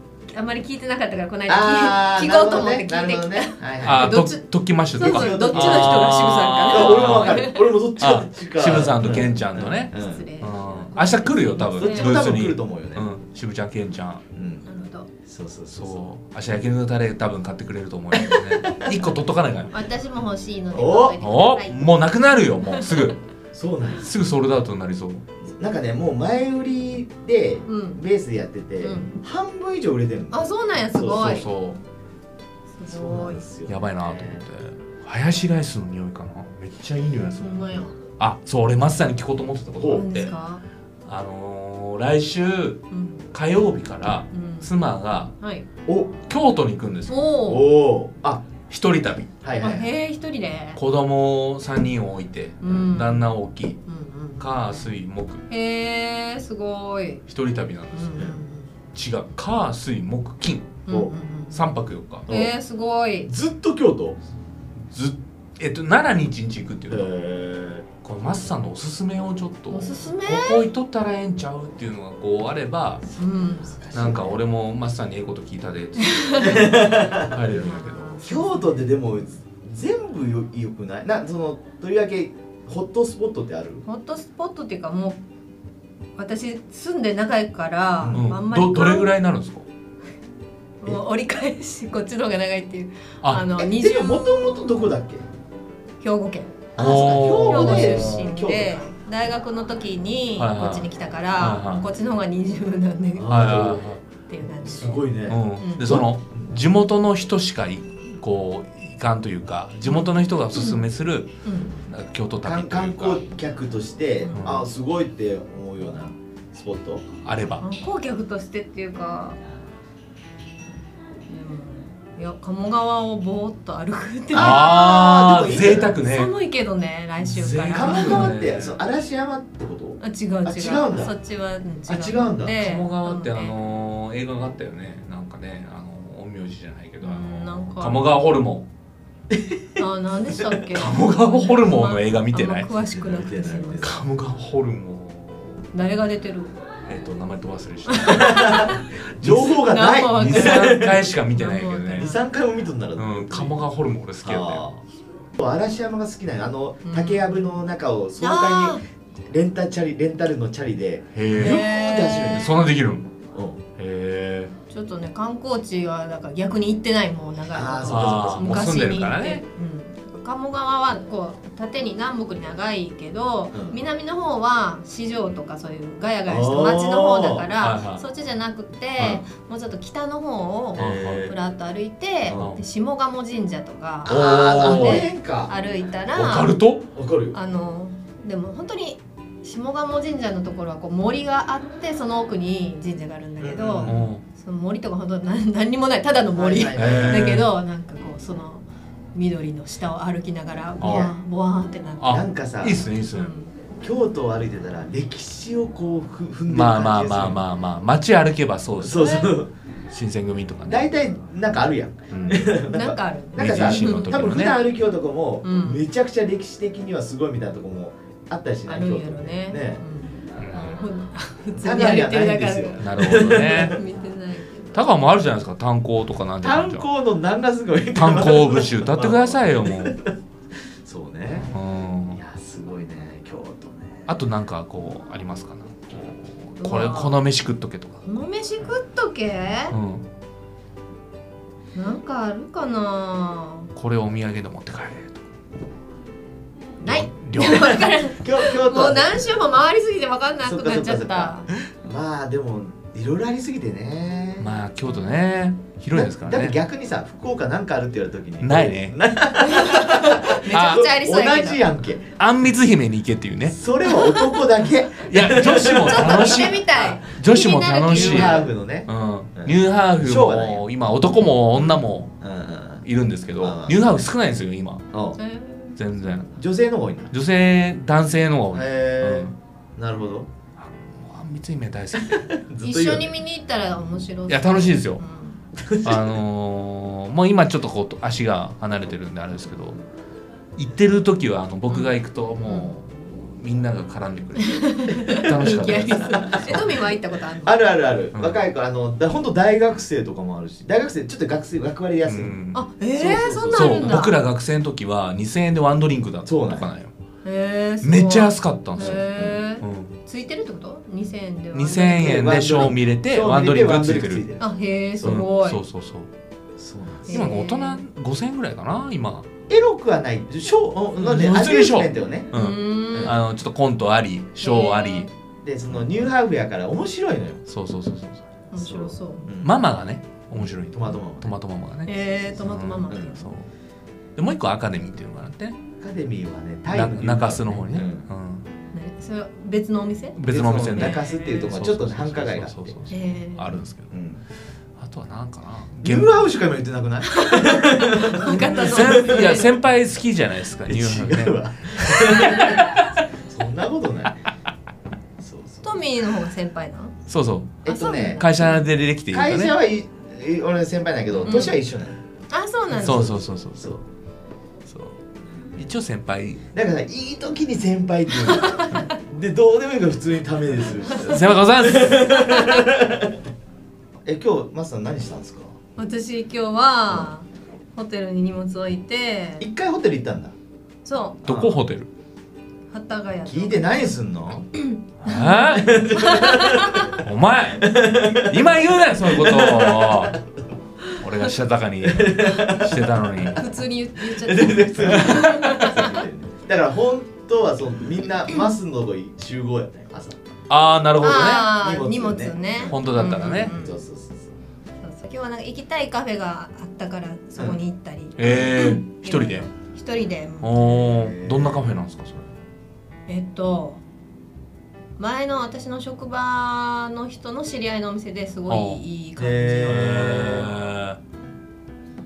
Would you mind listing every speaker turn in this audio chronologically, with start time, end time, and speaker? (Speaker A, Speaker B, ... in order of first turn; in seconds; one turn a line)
Speaker A: 0.3-7.6
Speaker B: 1.5-4.2
Speaker C: 3.8-14.2
Speaker B: 5.0-6.1
Speaker B: 6.7-10.3
Speaker A: 9.9-12.3
Speaker B: 11.8-13.1
Speaker B: 14.3-14.7
Speaker A: 14.7-15.1
Speaker B: 15.3-16.1
Speaker C: 15.7-19.7
Speaker B: 18.7-19.0
Speaker A: 19.7-22.0
Speaker B: 20.7-21.2
Speaker C: 21.2-23.2
Speaker B: 23.5-24.1
Speaker C: 24.0-25.2
Speaker B: 25.4-30.4
Speaker A: 27.7-28.0
Speaker A: 28.8-29.2
Speaker A: 30.3-31.5
Speaker B: 30.9-31.4
Speaker C: 31.1-31.8
Speaker A: 32.7-33.4
Speaker B: 32.9-34.4
Speaker C: 33.7-40.3
Speaker A: 37.4-37.9
Speaker B: 39.8-40.1
Speaker A: 39.9-40.6
Speaker C: 41.1-45.3
Speaker A: 42.9-43.3
Speaker A: 44.3-44.7
Speaker A: 45.4-45.7
Speaker B: 45.9-46.1
Speaker C: 46.3-47.3
Speaker A: 47.1-47.7
Speaker B: 47.5-48.5
Speaker C: 48.7-49.3
Speaker B: 49.4-49.9
Speaker A: 49.6-50.8
Speaker C: 50.8-53.8
Speaker A: 52.6-53.3
Speaker A: 53.9-54.7
Speaker C: 54.4-55.4
Speaker A: 55.5-57.2
Speaker C: 57.3-58.3
Speaker A: 57.9-58.7
Speaker C: 58.9-60.8
Speaker A: 60.9-61.7
Speaker B: 60.9-61.1
Speaker C: 61.5-62.3
Speaker B: 62.3-62.5
Speaker A: 62.3-63.3
Speaker B: 63.3-64.2
Speaker C: 64.9-67.1
Speaker B: 66.9-67.8
Speaker C: 68.0-73.0
Speaker A: 69.7-70.7
Speaker B: 73.1-74.4
Speaker A: 73.2-73.8
Speaker C: 73.9-78.2
Speaker A: 76.0-77.0
Speaker B: 76.4-77.3
Speaker A: 77.5-78.8
Speaker B: 78.2-83.8
Speaker A: 83.9-85.2
Speaker A: 86.2-89.2
Speaker B: 88.0-88.3
Speaker C: 88.1-89.6
Speaker A: 90.8-94.9
Speaker B: 93.5-95.2
Speaker A: 96.0-105.9
Speaker B: 96.8-98.9
Speaker C: 96.8-98.3
Speaker C: 100.4-101.8
Speaker B: 103.2-103.9
Speaker C: 103.3-104.0
Speaker B: 104.6-106.5
Speaker C: 105.2-111.3
Speaker A: 109.8-110.8
Speaker A: 111.4-111.8
Speaker C: 111.9-113.2
Speaker B: 112.4-117.0
Speaker C: 114.3-114.7
Speaker C: 117.2-117.7
Speaker A: 117.6-119.4
Speaker A: 121.3-128.3
Speaker B: 124.3-126.0
Speaker C: 124.3-126.3
Speaker C: 127.2-128.8
Speaker B: 127.7-131.1
Speaker A: 130.0-133.6
Speaker B: 131.9-132.6
Speaker C: 132.6-138.7
Speaker A: 137.0-138.1
Speaker B: 139.3-139.6
Speaker A: 139.8-144.0
Speaker C: 140.6-142.7
Speaker B: 142.9-144.1
Speaker C: 143.8-145.7
Speaker A: 145.7-146.5
Speaker C: 146.9-152.2
Speaker A: 147.9-148.9
Speaker B: 148.1-151.0
Speaker A: 149.6-152.2
Speaker B: 152.0-153.6
Speaker C: 152.9-154.7
Speaker B: 154.2-154.8
Speaker B: 155.4-162.6
Speaker A: 156.8-157.6
Speaker A: 158.2-158.8
Speaker C: 161.2-163.1
Speaker A: 161.3-162.5
Speaker B: 163.3-163.6
Speaker C: 163.8-164.5
Speaker A: 164.7-186.6
Speaker B: 167.5-168.6
Speaker C: 167.9-169.4
Speaker B: 173.5-173.8
Speaker B: 176.3-177.5
Speaker C: 177.6-178.0
Speaker B: 180.8-181.4
Speaker C: 180.8-181.3
Speaker B: 182.3-182.6
Speaker C: 182.3-182.6
Speaker C: 184.1-185.1
Speaker B: 184.1-185.5
Speaker C: 186.1-186.9
Speaker B: 186.9-187.4
Speaker A: 187.3-202.2
Speaker B: 193.4-194.1
Speaker C: 193.8-194.2
Speaker B: 196.3-197.2
Speaker C: 196.7-197.5
Speaker C: 200.8-201.1
Speaker B: 200.8-201.1
Speaker C: 202.0-203.3
Speaker B: 202.1-202.8
Speaker A: 203.1-203.5
Speaker B: 203.8-207.4
Speaker C: 206.5-209.3
Speaker B: 208.8-209.5
Speaker A: 208.9-209.4
Speaker C: 209.9-210.9
Speaker B: 210.7-219.8
Speaker C: 212.1-212.7
Speaker A: 212.7-214.2
Speaker C: 213.4-214.6
Speaker A: 215.4-215.8
Speaker A: 218.7-224.8
Speaker C: 220.4-220.7
Speaker B: 221.6-223.8
Speaker C: 222.8-223.8
Speaker C: 224.7-226.9
Speaker B: 226.4-230.2
Speaker C: 227.9-230.0
Speaker B: 230.8-231.5
Speaker C: 231.5-232.2
Speaker B: 232.1-234.1
Speaker C: 234.1-238.0
Speaker A: 236.6-237.2
Speaker A: 238.0-239.8
Speaker C: 239.7-240.0
Speaker A: 241.7-243.7
Speaker C: 243.8-245.2
Speaker C: 246.8-248.0
Speaker A: 246.8-251.5
Speaker B: 247.5-249.2
Speaker B: 250.4-254.5
Speaker C: 254.4-256.6
Speaker B: 255.9-262.1
Speaker C: 258.4-258.9
Speaker A: 259.4-261.6
Speaker C: 260.4-260.9
Speaker C: 262.2-263.6
Speaker B: 263.5-267.0
Speaker A: 263.9-264.3
Speaker C: 265.0-272.2
Speaker A: 265.9-268.5
Speaker B: 267.9-270.7
Speaker B: 272.2-272.9
Speaker C: 272.8-274.9
Speaker B: 273.4-273.8
Speaker B: 274.9-275.2
Speaker A: 275.2-276.2
Speaker C: 275.8-276.4
Speaker B: 276.4-277.1
Speaker C: 277.1-279.4
Speaker B: 278.5-280.3
Speaker C: 280.6-282.3
Speaker B: 281.9-283.1
Speaker A: 282.6-285.4
Speaker C: 284.3-285.0
Speaker B: 285.6-286.2
Speaker C: 285.8-289.8
Speaker C: 290.6-296.8
Speaker A: 291.7-291.9
Speaker A: 292.4-292.8
Speaker A: 294.4-297.6
Speaker B: 295.1-296.9
Speaker B: 297.4-302.4
Speaker C: 298.1-298.4
Speaker C: 302.1-302.6
Speaker A: 302.5-304.2
Speaker B: 302.9-304.1
Speaker C: 303.5-306.9
Speaker B: 306.2-306.7
Speaker A: 307.2-312.3
Speaker C: 307.8-309.1
Speaker B: 308.8-309.4
Speaker C: 309.6-310.0
Speaker C: 311.5-314.3
Speaker B: 311.9-315.3
Speaker A: 314.4-315.6
Speaker C: 315.0-316.1
Speaker B: 316.6-317.3
Speaker A: 317.1-317.8
Speaker C: 317.1-319.3
Speaker B: 319.5-322.3
Speaker C: 320.9-325.1
Speaker A: 322.3-323.2
Speaker B: 322.9-323.2
Speaker A: 324.4-325.1
Speaker B: 325.4-327.4
Speaker C: 327.5-328.2
Speaker A: 328.5-329.3
Speaker B: 328.6-329.6
Speaker C: 329.4-333.5
Speaker B: 330.6-331.3
Speaker A: 331.9-333.4
Speaker B: 332.9-333.1
Speaker C: 334.2-335.6
Speaker B: 335.8-338.1
Speaker C: 336.7-338.5
Speaker A: 338.7-340.2
Speaker C: 340.1-343.9
Speaker B: 340.3-342.8
Speaker A: 340.8-341.5
Speaker A: 342.9-343.5
Speaker B: 343.9-344.2
Speaker C: 344.8-346.1
Speaker B: 345.8-349.5
Speaker A: 347.1-349.5
Speaker C: 348.2-352.8
Speaker B: 350.7-352.7
Speaker A: 352.1-352.8
Speaker B: 353.3-354.3
Speaker B: 355.2-355.6
Speaker A: 355.6-356.9
Speaker C: 357.1-357.6
Speaker B: 357.6-358.3
Speaker A: 357.7-358.6
Speaker C: 358.1-359.5
Speaker B: 359.1-362.0
Speaker C: 361.2-361.5
Speaker A: 361.2-361.6
Speaker A: 362.3-363.2
Speaker B: 362.7-363.8
Speaker C: 362.7-363.8
Speaker C: 364.7-365.0
Speaker C: 365.6-366.4
Speaker B: 366.5-373.1
Speaker A: 368.3-368.9
Speaker C: 371.0-372.2
Speaker A: 372.1-372.7
Speaker B: 374.1-375.6
Speaker A: 375.8-379.5
Speaker B: 379.4-380.3
Speaker A: 380.8-381.2
Speaker B: 381.2-381.6
Speaker C: 381.2-381.9
Speaker A: 382.7-383.9
Speaker B: 383.3-384.5
Speaker A: 384.6-386.9
Speaker C: 385.0-385.8
Speaker B: 385.5-386.8
Speaker C: 386.8-390.2
Speaker B: 387.6-390.2
Speaker C: 390.9-393.4
Speaker B: 391.8-393.4
Speaker A: 393.4-395.9
Speaker B: 394.0-400.2
Speaker C: 394.9-395.3
Speaker C: 400.5-401.6
Speaker A: 401.0-403.8
Speaker B: 401.6-404.3
Speaker C: 402.7-403.5
Speaker A: 404.8-410.9
Speaker C: 408.2-409.5
Speaker B: 408.2-408.5
Speaker C: 410.4-412.3
Speaker B: 410.8-411.8
Speaker A: 413.1-413.8
Speaker A: 415.0-420.4
Speaker C: 418.5-418.9
Speaker B: 419.2-420.6
Speaker C: 419.7-421.0